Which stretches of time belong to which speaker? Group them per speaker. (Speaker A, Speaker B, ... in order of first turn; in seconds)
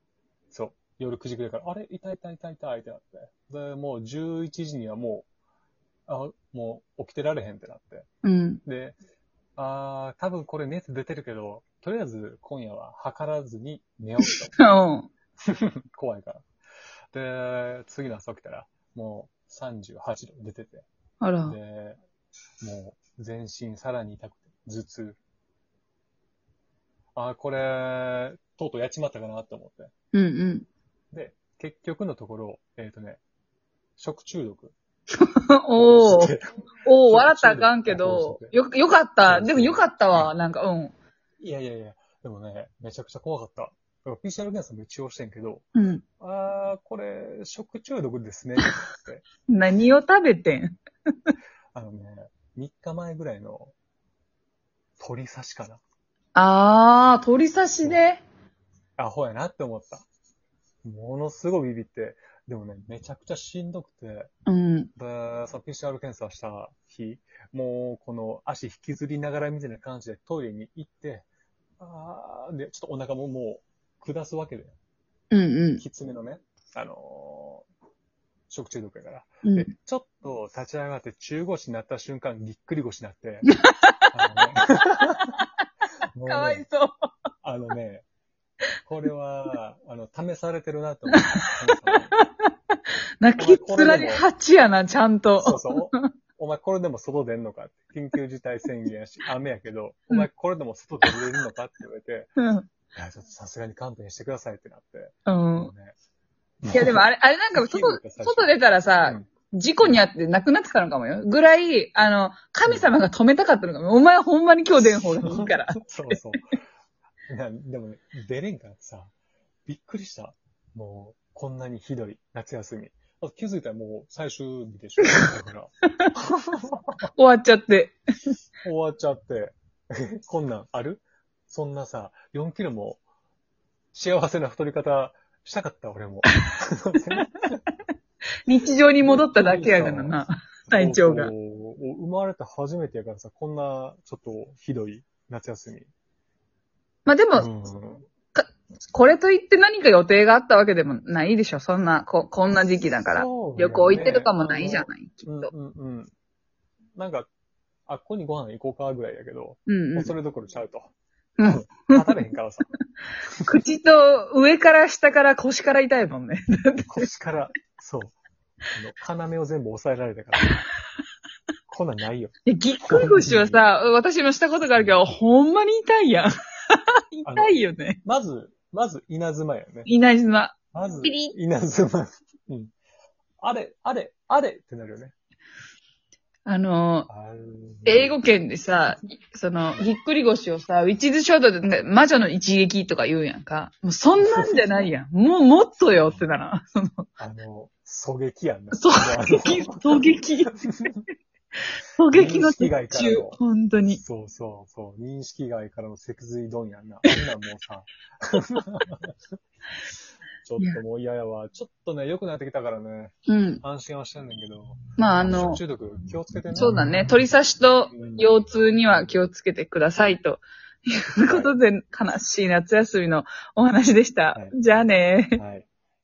Speaker A: 0.5-5.3, 6.1-8.1, 8.7-9.0, 9.6-14.6, 15.4-16.4, 17.1-20.9, 21.4-22.0, 22.6-25.2, 27.1-29.9, 31.1-33.2, 34.0-34.8, 35.8-38.5, 39.2-40.3, 41.4-45.7, 46.2-49.2, 51.7-53.7, 55.0-55.8, 59.0-60.1, 60.8-64.3, 65.0-71.3, 71.8-74.8, 75.8-77.7, 78.5-83.5, 84.1-85.3, 86.1-86.7, 87.4-88.1, 88.8-92.2, 93.3-94.3, 95.4-102.3, 103.0-106.0, 106.6-107.0, 107.5-108.5, 112.7-113.0, 114.9-116.4, 117.3-119.1, 119.7-127.1, 128.6-133.0, 133.9-137.6, 139.0-145.9, 147.4-148.1, 153.1-156.1, 156.9-157.3, 157.9-160.9, 161.4-162.7, 166.8-168.2, 168.8-170.6, 171.7-173.6, 177.2-179.9, 180.7-182.7, 183.4-185.1, 187.1-188.2, 194.2-194.8, 195.9-196.3, 197.2-199.9, 202.1-209.2, 210.4-217.1, 217.9-218.3, 221.2-221.6, 225.4-225.7
Speaker B: 8.2-8.6, 14.6-15.1, 21.2-21.6, 30.1-30.7, 35.2-36.3, 36.9-40.9, 45.8-46.0, 49.5-50.8, 56.4-58.2, 64.5-64.9, 75.3-75.8, 79.4-79.7, 83.7-84.1, 86.3-87.1, 91.1-91.4, 93.2-96.1, 102.4-102.7, 105.3-105.7, 106.7-116.2, 127.2-128.0, 138.5-141.3, 147.1-147.5, 148.3-155.5, 159.7-160.1, 161.4-162.2, 163.4-167.1, 172.5-178.0, 179.9-181.3, 186.5-187.1, 187.9-197.1, 198.7-200.6, 201.9-204.0, 213.3-213.6, 215.0-215.6, 216.6-225.4